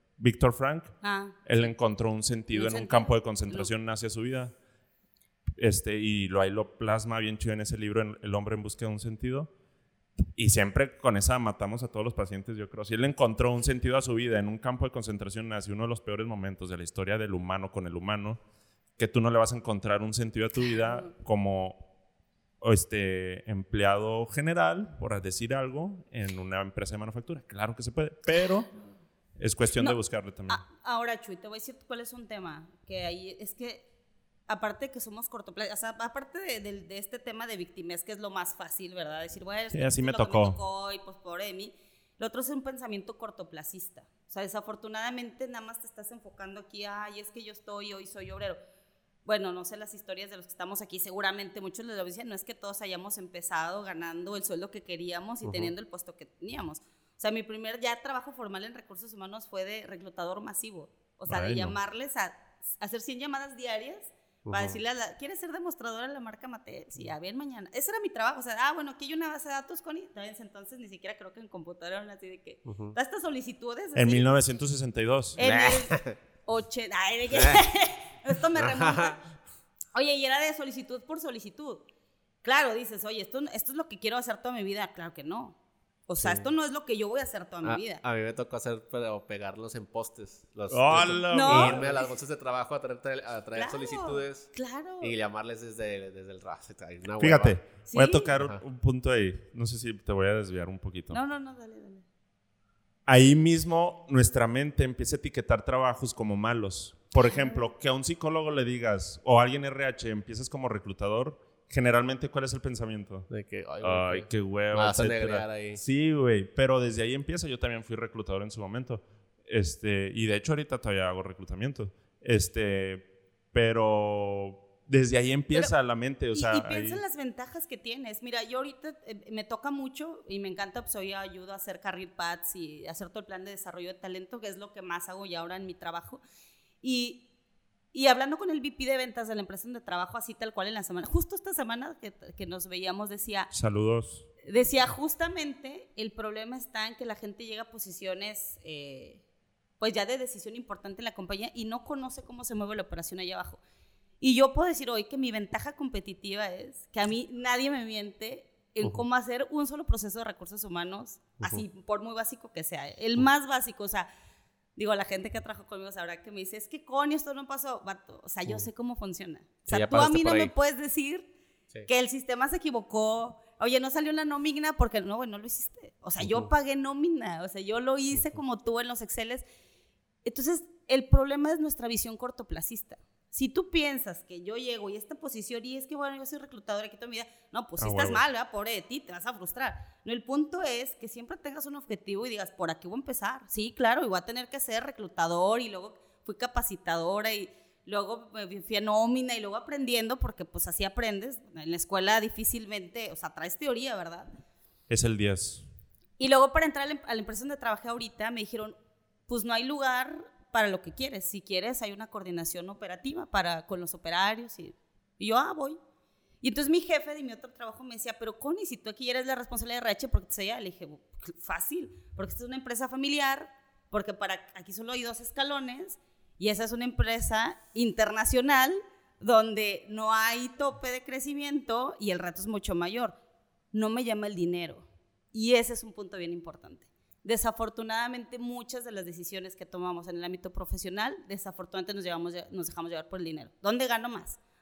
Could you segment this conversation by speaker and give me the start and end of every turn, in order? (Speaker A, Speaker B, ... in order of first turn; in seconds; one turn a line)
Speaker A: 0.2-4.5
Speaker B: 1.0-1.7
Speaker B: 2.5-3.7
Speaker A: 5.6-9.5
Speaker A: 10.3-18.4
Speaker A: 19.0-21.9
Speaker A: 22.6-28.7
Speaker A: 29.4-30.6
Speaker B: 29.8-33.9
Speaker B: 34.5-48.6
Speaker A: 39.7-40.6
Speaker B: 49.2-74.3
Speaker C: 55.4-55.7
Speaker A: 61.3-61.8
Speaker C: 64.4-64.8
Speaker C: 72.7-72.9
Speaker A: 73.9-75.4
Speaker B: 75.4-79.2
Speaker C: 75.4-76.2
Speaker C: 78.5-79.2
Speaker B: 79.9-81.8
Speaker B: 82.4-85.6
Speaker B: 86.1-88.0
Speaker C: 86.2-86.5
Speaker C: 87.6-97.6
Speaker A: 90.7-91.8
Speaker B: 91.3-92.1
Speaker B: 93.5-95.1
Speaker A: 97.2-101.2
Speaker B: 97.9-98.3
Speaker B: 101.1-102.0
Speaker A: 103.1-113.3
Speaker B: 107.3-107.5
Speaker C: 113.3-115.8
Speaker A: 113.8-127.0
Speaker B: 126.3-136.2
Speaker B: 136.8-137.2
Speaker B: 137.9-143.5
Speaker A: 143.5-144.3
Speaker B: 144.4-149.2
Speaker B: 149.8-153.6
Speaker B: 154.2-164.1
Speaker B: 164.8-171.3
Speaker C: 169.7-170.5
Speaker B: 171.9-179.4
Speaker C: 176.2-176.5
Speaker B: 180.2-204.3
Speaker A: 187.8-188.2
Speaker A: 204.9-205.7
Speaker B: 206.2-208.8
Speaker B: 209.3-215.8
Speaker B: 216.4-233.2
Speaker B: 233.7-244.4